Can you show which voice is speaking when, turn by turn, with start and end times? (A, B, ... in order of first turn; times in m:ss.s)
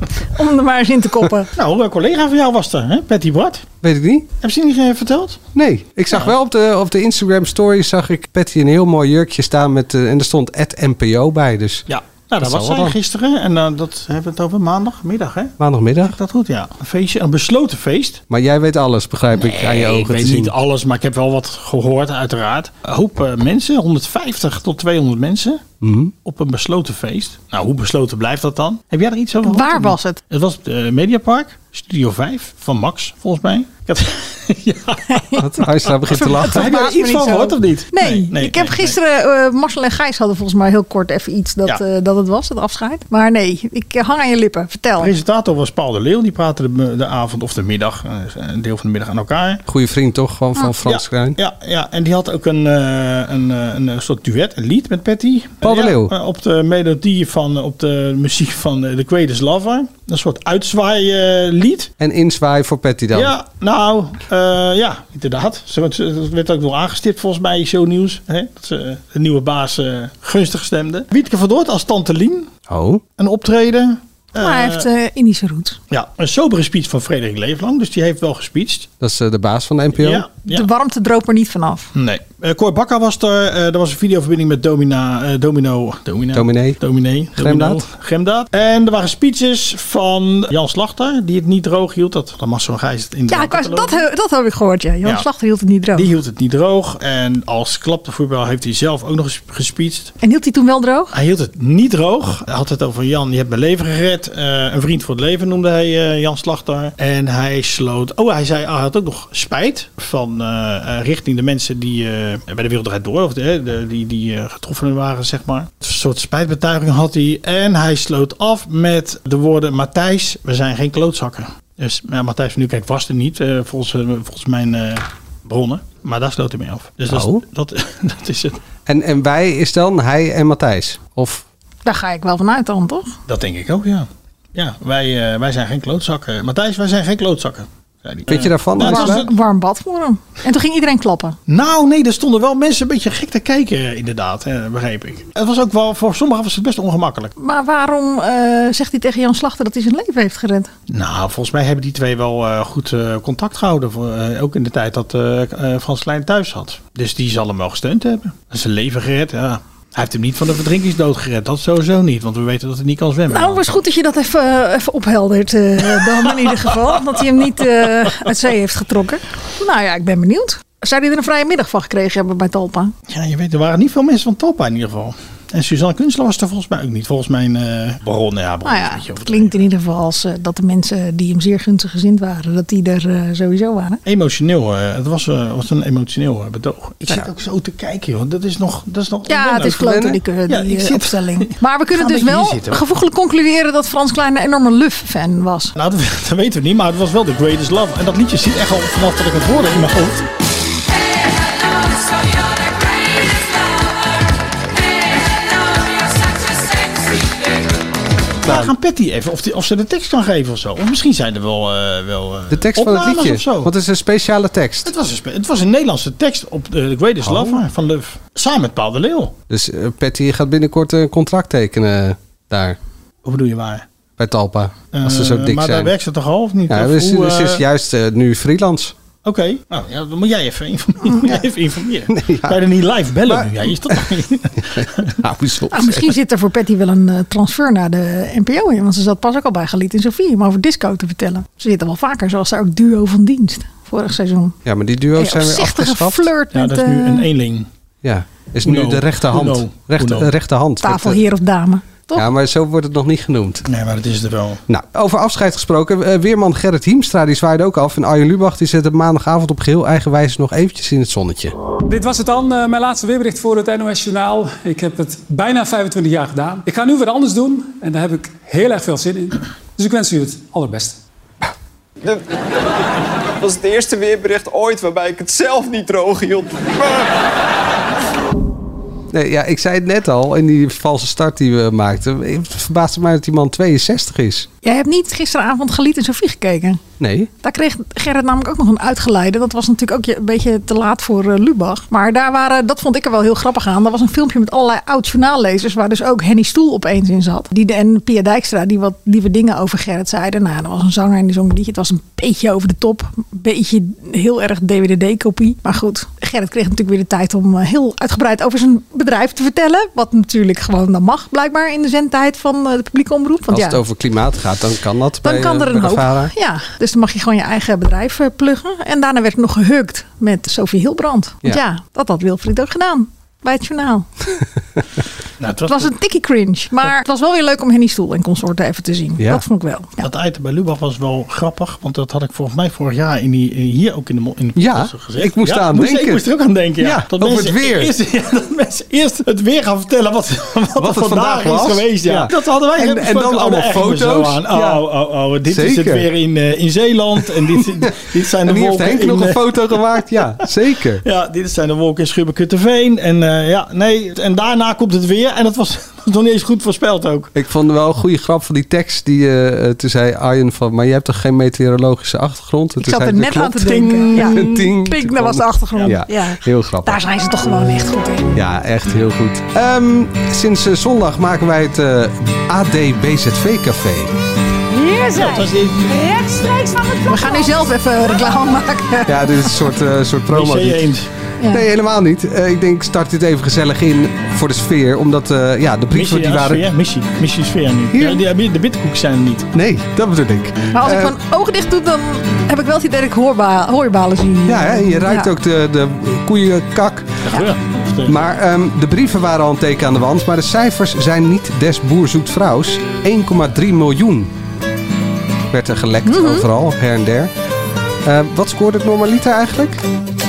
0:00.3-0:01.5 A
0:01.6-0:03.7 B
0:03.8-0:04.3 C
0:04.4-0:05.4 B
0:05.6-0:11.9 C
0:11.9-0:18.2 B
0:12.4-0:13.0 C
0:15.6-0:16.2 C
0:18.3-0:20.5 C
0:19.4-0:25.6 B
0:25.8-0:26.1 C
0:26.2-0:39.0 B
0:29.4-0:30.2 A
0:35.1-0:45.1 A
0:35.4-0:36.8 C
0:45.0-0:49.6 B
0:49.7-0:51.4 C
0:50.8-1:01.9 B
0:55.6-0:56.1 C
1:02.0-1:03.3 C
1:03.1-1:12.5 B
1:12.7-1:13.0 C
1:13.2-1:14.9 B
1:14.4-1:15.8 A
1:15.9-1:18.9 B
1:19.0-1:20.2 C
1:20.0-1:20.7 B
1:20.5-1:21.9 A
1:22.0-1:34.0 B
1:26.3-1:26.8 C
1:27.4-1:27.8 C
1:33.3-1:36.1 A
1:36.0-1:40.1 B
1:40.2-1:41.1 A
1:41.1-2:08.6 B
2:07.1-2:07.4 C
2:08.9-2:11.4 C
2:11.9-2:13.1 A
2:13.3-2:19.3 B
2:18.3-2:19.3 C
2:18.8-2:21.4 A
2:21.5-2:27.4 B
2:27.4-2:30.7 A
2:30.9-2:43.8 B
2:43.3-2:52.9 A
2:45.8-2:48.3 B
2:53.1-2:59.6 B
2:58.6-3:04.0 A
3:04.0-3:09.8 B
3:09.3-3:15.7 A
3:09.7-3:10.2 C
3:10.5-3:12.8 B
3:15.8-3:20.2 B
3:28.4-3:33.7 B
3:28.4-3:28.7 C
3:32.5-3:34.9 C
3:34.8-3:39.4 B
3:37.2-3:37.6 C
3:39.5-3:42.8 C
3:43.2-3:43.8 B
3:44.2-3:45.9 C
3:44.9-3:47.6 B
3:46.7-3:49.0 C
3:49.2-3:55.2 B
3:52.1-3:52.6 C
3:53.3-3:54.0 C
3:54.8-3:56.1 C
3:55.7-4:04.6 A
4:04.6-4:06.3 C
4:05.2-4:07.3 A
4:06.5-4:07.7 B
4:08.0-4:11.2 C
4:08.6-4:10.3 B
4:10.8-4:12.3 A
4:12.2-4:13.6 C
4:13.7-4:14.6 B
4:14.7-4:21.5 C
4:21.9-4:31.0 D
4:32.0-4:32.4 E
4:33.4-4:37.2 E
4:39.1-4:44.5 C
4:44.6-4:46.8 A
4:47.0-4:47.3 C
4:47.4-5:13.8 A
5:13.5-5:16.3 C
5:15.2-5:24.1 A
5:25.4-5:25.9 B
5:25.7-5:30.1 A
5:29.2-5:29.4 C
5:30.0-5:49.5 B
5:34.6-5:36.2 C
5:36.8-5:37.9 C
5:40.8-5:44.8 C
5:45.5-5:46.1 C
5:47.4-5:47.9 C
5:48.4-5:51.0 C
5:51.0-5:57.3 B
5:57.4-6:07.0 C
6:02.8-6:08.3 A
6:03.8-6:04.4 B
6:08.3-6:14.1 C
6:14.8-6:15.4 F
6:15.1-6:16.0 B
6:15.9-6:17.6 F
6:17.0-6:19.4 A
6:19.1-6:20.9 C
6:20.3-6:21.1 B
6:21.4-6:21.6 A
6:21.5-6:26.6 C
6:25.9-6:29.5 B
6:27.9-6:28.2 C
6:29.5-6:31.1 C
6:30.7-6:35.3 A
6:34.5-6:37.3 C
6:37.2-6:38.2 B
6:38.1-6:44.3 C
6:45.5-6:47.3 C
6:46.1-6:46.5 A
6:48.0-6:49.8 C